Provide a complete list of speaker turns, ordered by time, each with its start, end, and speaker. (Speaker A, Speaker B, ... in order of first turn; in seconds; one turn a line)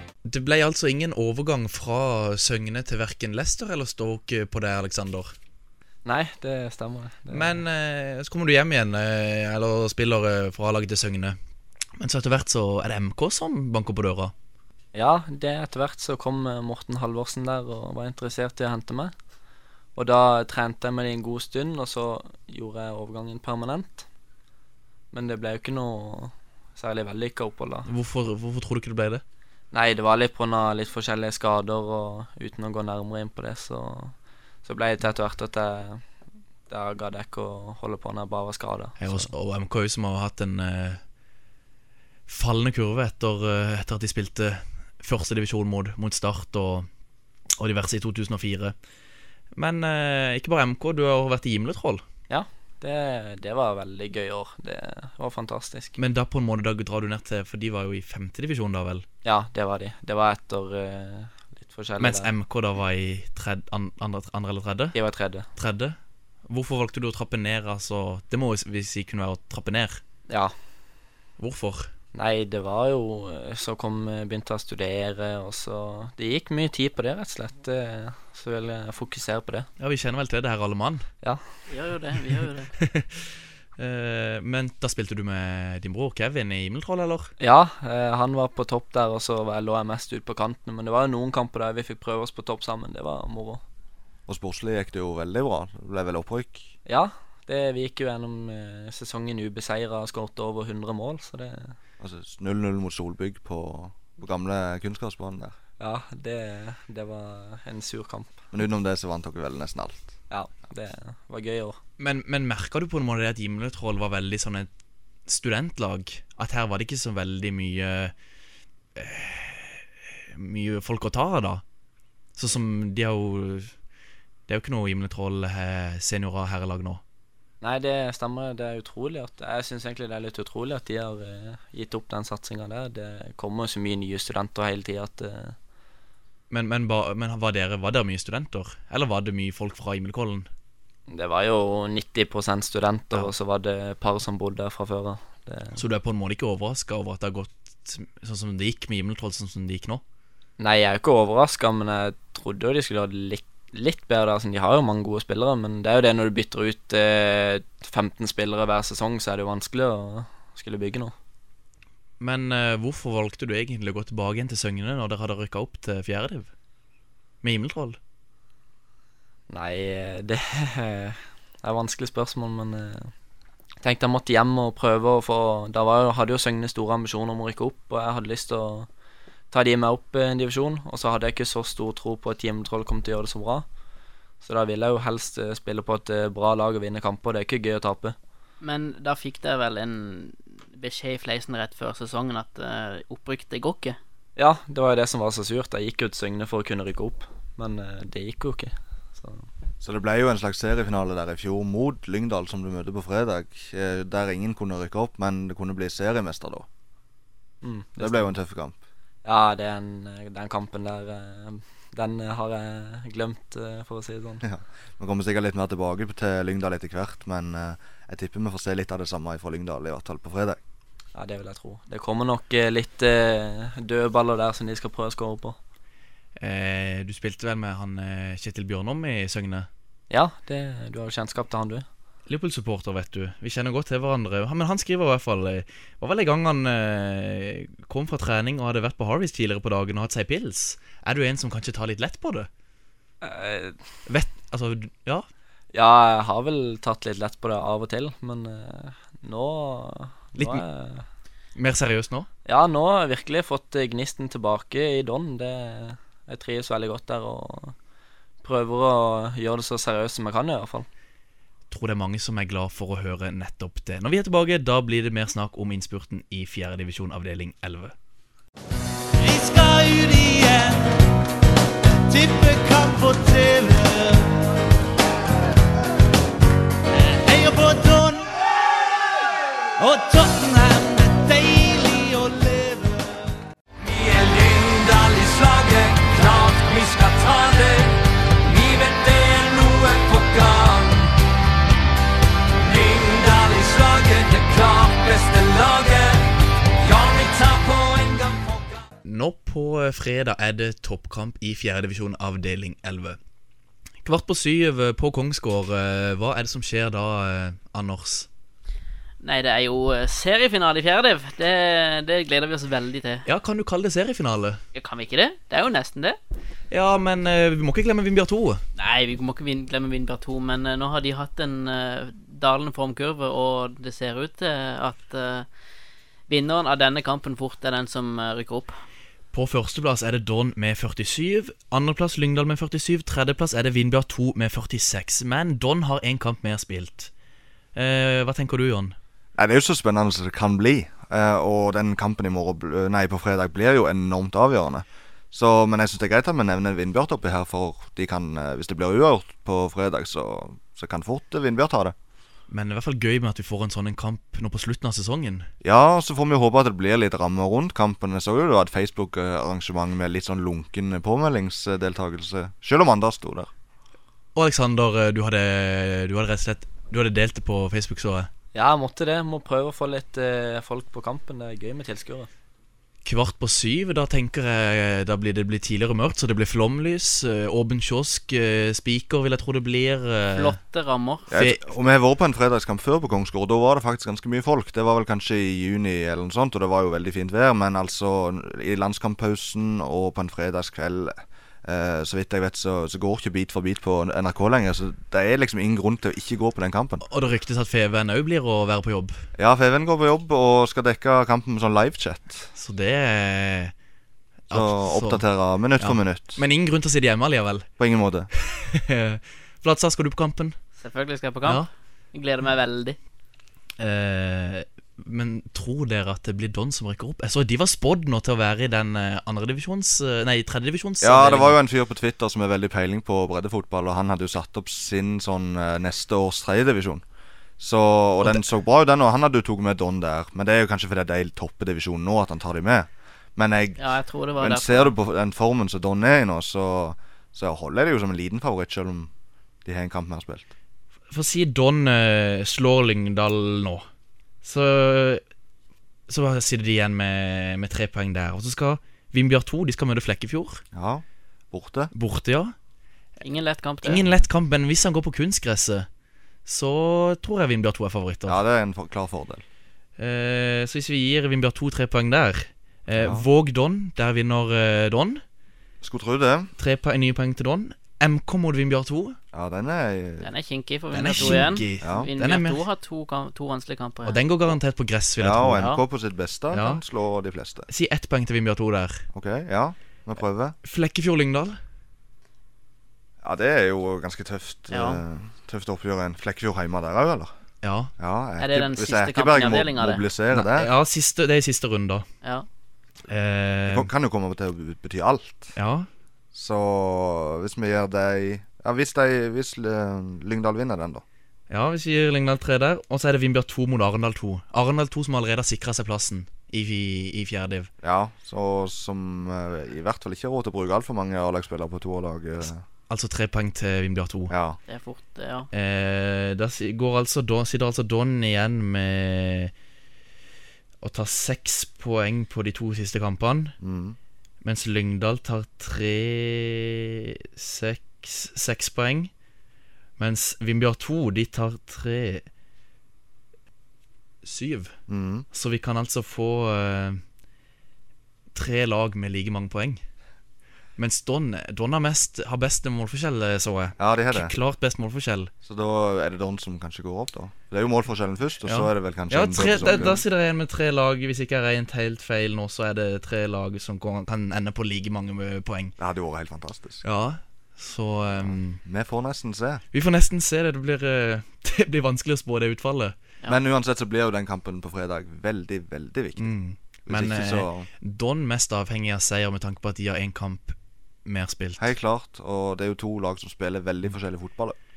Speaker A: 0.2-5.3
Speaker B: 6.0-7.6
Speaker A: 7.3-11.4
Speaker A: 12.0-14.3
Speaker B: 14.9-19.1
Speaker B: 20.0-24.1
Speaker B: 25.1-27.9
Speaker A: 27.9-29.2
Speaker B: 29.7-34.1
Speaker B: 34.6-36.0
Speaker B: 36.7-39.3
Speaker A: 39.0-41.0
Speaker A: 42.3-46.9
Speaker A: 47.6-48.8
Speaker A: 49.5-52.0
Speaker B: 52.3-56.0
Speaker A: 56.0-59.1
Speaker B: 59.2-62.3
Speaker A: 62.0-65.0
Speaker B: 64.9-65.5
Speaker A: 65.6-66.0
Speaker A: 66.5-70.0
Speaker A: 71.4-71.9
Speaker B: 72.2-79.7
Speaker A: 79.8-81.0
Speaker C: 81.7-82.7
Speaker A: 82.8-87.3
Speaker B: 87.4-93.6
Speaker D: 94.3-96.7
Speaker B: 96.9-101.8
Speaker D: 102.0-105.5
Speaker B: 105.8-108.4
Speaker D: 108.5-110.1
Speaker B: 110.3-111.8
Speaker A: 112.0-114.7
Speaker A: 115.3-118.1
Speaker A: 119.0-121.6
Speaker A: 122.4-123.7
Speaker A: 124.5-127.0
Speaker B: 127.6-135.6
Speaker A: 136.5-140.5
Speaker B: 141.1-145.8
Speaker A: 145.8-150.0
Speaker B: 150.6-161.1
Speaker A: 162.2-166.5
Speaker A: 167.4-168.0
Speaker B: 169.5-173.1
Speaker B: 173.8-178.9
Speaker B: 179.5-183.7
Speaker B: 184.4-188.2
Speaker C: 188.6-194.0
Speaker B: 194.4-199.5
Speaker D: 199.8-206.7
Speaker B: 207.6-208.3
Speaker D: 208.0-208.8
Speaker B: 209.2-214.4
Speaker D: 214.4-220.6
Speaker B: 221.2-225.6
Speaker A: 226.4-229.7
Speaker B: 230.1-231.8
Speaker A: 232.3-242.5
Speaker B: 243.2-243.8
Speaker A: 244.1-245.3
Speaker B: 245.7-251.1
Speaker A: 250.4-250.6
Speaker A: 251.6-252.3
Speaker B: 252.5-257.8
Speaker B: 258.4-260.9
Speaker A: 261.7-267.9
Speaker E: 269.2-270.9
Speaker E: 272.1-274.3
Speaker E: 277.2-278.3
Speaker E: 279.8-283.2
Speaker E: 283.8-291.1
Speaker E: 292.6-298.9
Speaker A: 299.1-303.2
Speaker A: 304.0-308.3
Speaker C: 309.2-313.3
Speaker A: 313.3-314.6
Speaker C: 314.7-316.2
Speaker A: 316.7-318.6
Speaker C: 318.8-325.5
Speaker C: 326.3-328.7
Speaker A: 329.3-337.1
Speaker A: 337.8-338.9
Speaker D: 339.4-351.9
Speaker A: 352.5-355.5
Speaker D: 355.6-363.5
Speaker A: 364.4-368.3
Speaker B: 368.6-372.3
Speaker A: 373.1-380.6
Speaker C: 380.3-381.3
Speaker D: 381.3-397.0
Speaker A: 381.4-381.6
Speaker A: 397.1-399.2
Speaker D: 399.4-402.5
Speaker A: 402.6-403.7
Speaker A: 404.5-405.2
Speaker D: 404.5-406.4
Speaker A: 405.8-407.7
Speaker D: 407.8-408.3
Speaker A: 408.4-410.6
Speaker C: 410.8-413.0
Speaker A: 413.8-421.6
Speaker D: 421.0-427.0
Speaker D: 427.6-433.8
Speaker C: 433.8-434.9
Speaker D: 434.4-439.1
Speaker D: 439.6-440.5
Speaker A: 441.1-443.9
Speaker A: 444.4-445.2
Speaker A: 446.1-450.6
Speaker D: 450.7-451.9
Speaker A: 451.9-452.5
Speaker C: 453.2-454.2
Speaker A: 453.8-455.9
Speaker A: 456.5-458.4
Speaker D: 458.3-459.4
Speaker A: 460.0-465.2
Speaker D: 463.0-463.3
Speaker D: 465.8-466.5
Speaker A: 466.6-469.2
Speaker D: 469.3-470.3
Speaker C: 470.2-474.2
Speaker A: 470.9-472.6
Speaker D: 471.2-472.1
Speaker A: 474.1-475.7
Speaker D: 475.2-477.7
Speaker C: 475.5-475.8
Speaker A: 476.5-476.8
Speaker A: 477.7-479.1
Speaker D: 479.1-480.6
Speaker A: 480.6-481.6
Speaker D: 483.2-487.3
Speaker C: 484.7-485.0
Speaker A: 487.6-487.9
Speaker D: 488.0-490.7
Speaker C: 488.4-490.0
Speaker A: 490.3-492.1
Speaker A: 493.1-493.9
Speaker D: 493.7-495.5
Speaker A: 495.6-495.9
Speaker D: 496.3-501.0
Speaker A: 501.5-507.7
Speaker D: 507.8-512.6
Speaker A: 512.9-514.3
Speaker D: 514.3-514.6
Speaker C: 514.7-515.5
Speaker A: 515.5-519.5
Speaker A: 520.8-523.5
Speaker D: 523.6-524.0
Speaker A: 524.4-529.1
Speaker A: 530.0-532.2
Speaker A: 534.2-534.7
Speaker D: 534.9-535.3
Speaker A: 535.3-537.0
Speaker A: 538.3-539.8
Speaker A: 540.8-545.3
Speaker D: 543.8-544.3
Speaker D: 545.4-550.0
Speaker A: 548.5-555.7
Speaker D: 555.8-556.8
Speaker A: 556.8-558.6
Speaker D: 558.1-559.6
Speaker A: 559.7-563.0
Speaker D: 563.3-566.3
Speaker A: 566.2-571.7
Speaker D: 566.9-567.7
Speaker D: 571.6-574.6